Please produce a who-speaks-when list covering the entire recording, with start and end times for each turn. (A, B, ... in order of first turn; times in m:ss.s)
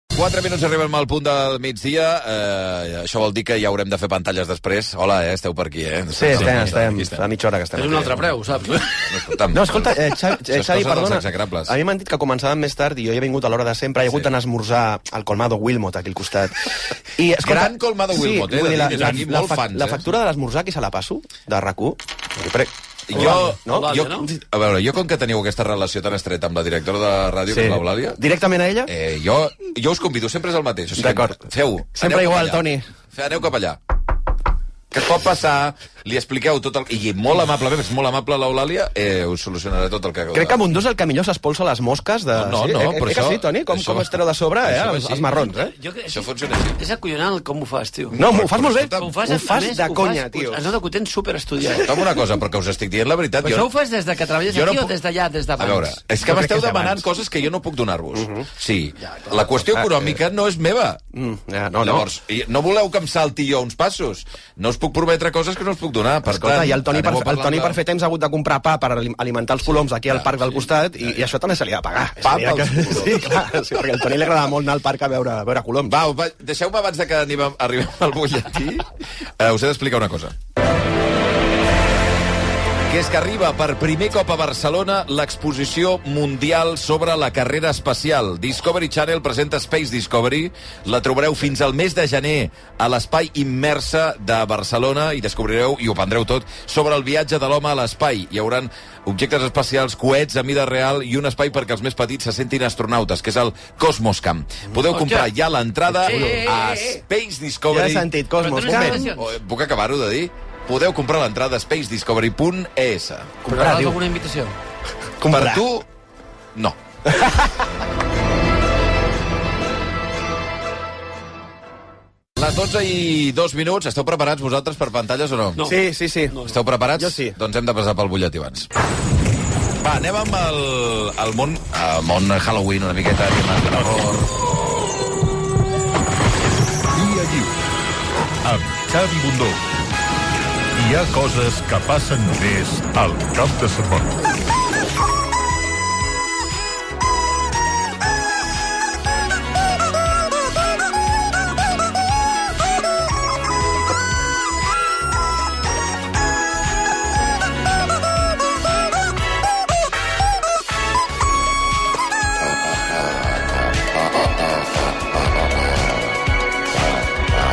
0:00.1-0:07.2 A
0:06.1-0:08.3 B
0:06.3-0:07.0 C
0:07.8-0:08.9 D
0:09.0-0:11.8 A
0:09.5-0:24.2 B
0:17.4-0:20.1 A
0:18.8-0:19.3 C
0:23.1-0:28.2 A
0:23.2-0:24.3 D
0:27.5-0:28.9 B
0:28.9-0:33.8 A
0:31.0-0:31.4 B
0:32.0-0:32.9 B
0:34.9-0:40.6 A
0:40.3-0:45.7 B
0:42.4-0:45.4 A
0:45.3-0:48.2 D
0:46.1-0:46.8 A
0:48.1-0:49.1 A
0:48.1-0:50.7 B
0:49.0-0:52.0 D
0:51.6-0:53.7 A
0:53.4-0:56.0 D
0:54.5-0:54.9 A
0:55.6-1:01.0 A
0:56.2-0:57.0 B
0:58.1-0:58.4 B
0:59.8-1:00.1 B
1:01.1-1:02.1 B
1:01.8-1:07.8 A
1:06.3-1:16.0 B
1:09.8-1:10.5 A
1:12.2-1:13.5 A
1:15.9-1:20.4 A
1:22.9-1:53.4 A
1:44.9-1:45.3 D
1:45.9-1:46.8 D
1:46.0-1:46.6 B
1:47.7-1:49.1 B
1:48.4-1:49.3 D
1:53.4-1:54.0 B
1:53.5-1:54.6 D
1:55.2-1:55.6 B
1:55.3-1:55.9 A
1:57.1-1:57.4 B
2:02.4-2:05.6 A
2:05.6-2:06.5 D
2:05.6-2:06.4 B
2:06.4-2:08.7 A
2:07.0-2:07.4 B
2:09.8-2:14.3 A
2:13.7-2:14.0 C
2:16.9-2:17.5 C
2:18.4-2:19.6 C
2:20.8-2:24.1 C